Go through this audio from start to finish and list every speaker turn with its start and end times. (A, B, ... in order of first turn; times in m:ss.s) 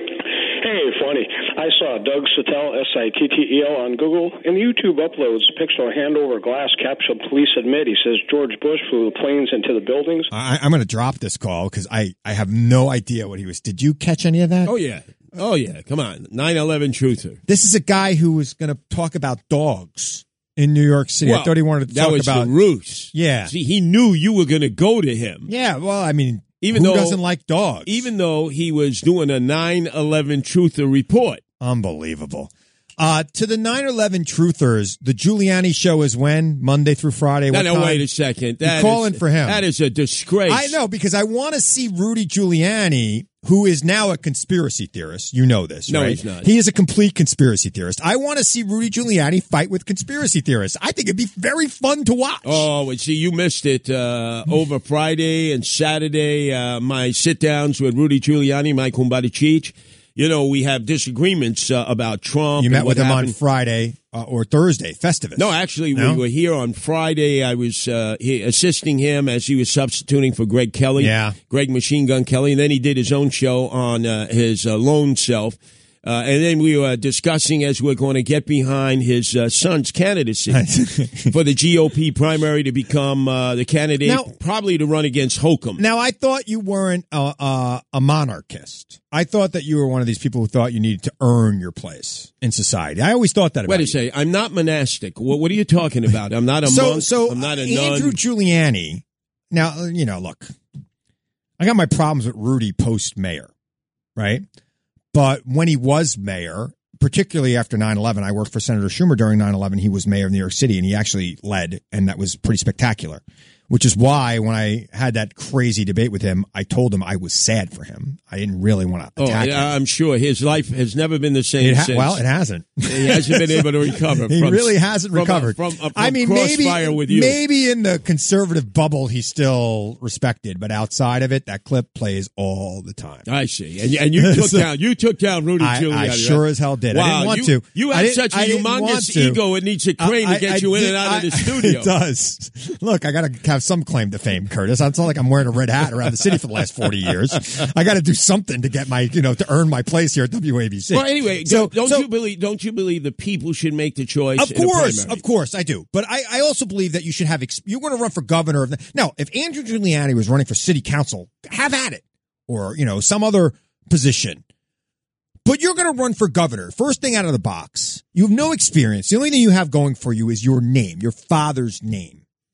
0:00.4-0:10.3 A
0:10.3-0:14.7 B
0:14.6-0:17.4 C
0:17.5-0:22.5 B
0:21.2-0:25.5 C
0:23.1-0:23.5 B
0:25.5-0:28.0 B
0:26.6-0:27.2 C
0:27.8-0:31.4 C
0:31.6-0:38.0 B
0:37.5-0:40.8 C
0:38.6-0:39.6 B
0:40.5-0:52.6 B
0:45.9-0:46.5 C
0:52.4-1:03.3 C
1:02.6-1:06.2 B
1:05.4-1:20.6 C
1:11.0-1:11.4 B
1:20.5-1:21.3 B
1:21.3-1:25.8 C
1:24.0-1:24.3 B
1:25.8-1:33.9 B
1:33.7-1:38.2 C
1:36.6-1:40.5 B
1:41.6-1:43.5 B
1:44.2-1:44.4 B
1:45.1-1:59.7 B
1:59.2-2:02.2 C
2:01.6-2:13.2 B
2:02.9-2:07.4 C
2:13.2-2:21.9 C
2:14.1-2:14.7 B
2:15.6-2:19.4 B
2:20.0-2:32.1 B
2:30.9-2:35.2 C
2:34.4-2:44.4 B
2:45.4-2:52.2 B